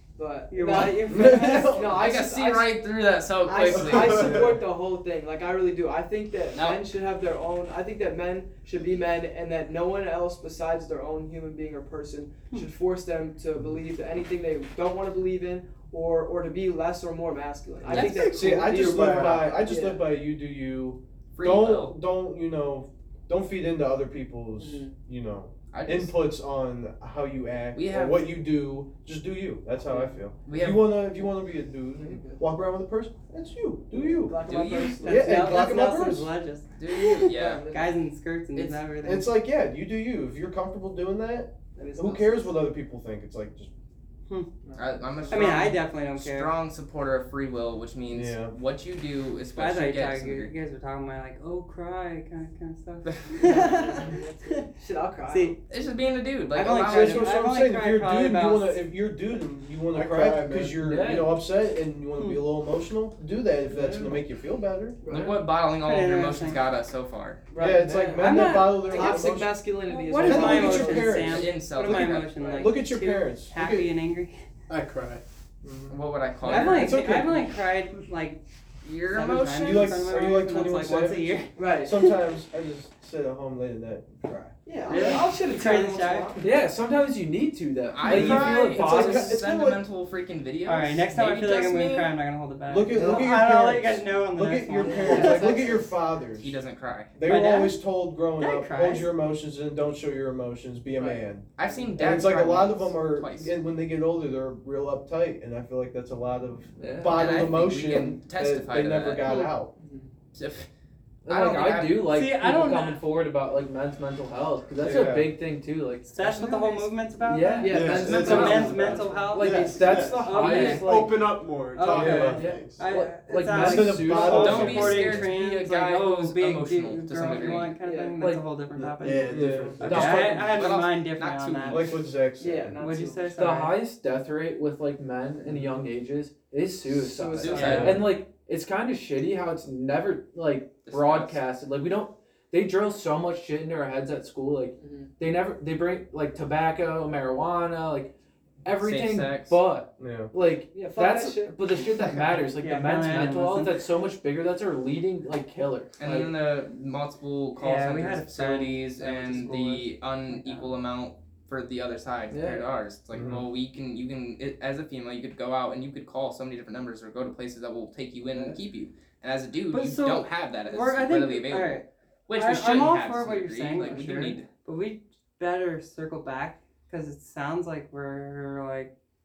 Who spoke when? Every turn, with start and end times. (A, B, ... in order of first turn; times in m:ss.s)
0:00.2-0:02.8 A
0:00.5-0:01.8 B
0:01.0-0:02.0 C
0:01.9-0:04.5 D
0:03.4-0:20.2 A
0:03.8-0:04.6 E
0:06.5-0:06.8 D
0:17.9-0:18.6 D
0:18.1-0:34.5 C
0:18.7-0:19.4 E
0:21.3-0:22.0 D
0:24.6-0:24.9 A
0:25.7-0:26.2 D
0:27.7-0:28.4 D
0:29.9-0:30.2 A
0:30.4-0:31.1 D
0:32.0-0:32.5 A
0:33.9-0:35.6 A
0:34.4-0:35.2 D
0:35.0-0:36.3 C
0:35.0-0:39.3 B
0:36.8-0:37.6 D
0:37.3-0:37.9 A
0:38.6-0:38.8 D
0:39.0-0:43.7 C
0:41.8-0:42.6 A
0:44.6-0:45.7 A
0:44.8-0:50.5 D
0:45.3-0:46.5 B
0:48.1-0:48.5 C
0:49.6-0:54.7 B
0:53.0-0:53.6 D
0:53.4-0:55.6 A
0:55.3-0:55.6 B
0:55.7-0:57.3 D
0:56.5-0:58.9 B
0:56.6-1:05.0 C
0:59.9-1:00.9 E
1:00.8-1:01.4 F
1:03.7-1:04.2 F
1:05.0-1:05.3 A
1:05.1-1:07.5 D
1:05.1-1:05.4 F
1:05.7-1:06.6 B
1:07.5-1:11.4 A
1:07.6-1:13.9 C
1:07.8-1:08.2 F
1:08.2-1:09.3 B
1:09.9-1:14.4 B
1:11.2-1:12.5 D
1:12.3-1:12.7 A
1:14.7-1:15.2 E
1:15.6-1:17.4 C
1:15.9-1:17.0 D
1:16.4-1:18.4 B
1:16.5-1:17.2 A
1:18.8-1:19.9 D
1:19.1-1:22.1 B
1:19.6-1:24.5 C
1:21.6-1:22.0 A
1:24.6-1:26.6 A
1:24.9-1:26.3 B
1:24.9-1:25.2 F
1:26.4-1:29.4 F
1:27.9-1:32.1 D
1:28.0-1:29.8 C
1:30.6-1:35.7 B
1:32.7-1:36.6 C
1:32.9-1:33.3 A
1:34.8-1:35.9 A
1:36.4-1:37.2 D
1:37.2-1:49.7 C
1:37.2-1:37.8 B
1:38.4-1:39.1 B
1:40.9-1:42.1 A
1:41.6-1:43.6 D
1:46.8-1:47.4 F
1:47.0-1:49.3 D
1:49.2-1:49.6 B
1:49.8-1:50.1 A
1:50.3-1:50.7 D
1:51.2-1:52.1 D
1:51.2-1:56.7 F
1:52.1-1:53.1 B
1:54.8-1:55.4 C
1:56.1-2:00.9 B
1:57.2-2:01.3 F
1:57.6-1:59.4 A
1:57.7-2:02.9 E
1:57.9-1:58.9 D
2:00.3-2:00.9 A
2:01.8-2:02.2 A
2:01.8-2:12.0 B
2:01.9-2:02.4 C
2:02.1-2:05.1 F
2:03.4-2:05.2 C
2:04.2-2:07.7 D
2:07.8-2:08.2 A
2:08.2-2:08.4 F
2:08.8-2:10.2 E
2:09.3-2:10.5 C
2:09.8-2:12.1 D
2:09.9-2:10.6 F
2:11.6-2:12.8 C
2:12.4-2:13.3 A
2:12.8-2:13.8 B
2:13.3-2:36.3 F
2:15.4-2:15.8 C
2:16.9-2:18.0 A
2:17.4-2:18.2 D
2:17.5-2:17.9 B
2:17.6-2:18.2 C
2:20.9-2:21.4 D
2:24.8-2:25.1 A
2:28.8-2:29.6 D
2:30.0-2:30.4 C
2:30.7-2:31.8 A
2:32.4-2:33.8 B
2:36.0-2:54.5 D
2:37.6-2:40.7 B
2:42.3-2:42.7 F
2:43.1-2:43.4 C
2:48.3-2:48.6 F
2:49.7-2:58.9 B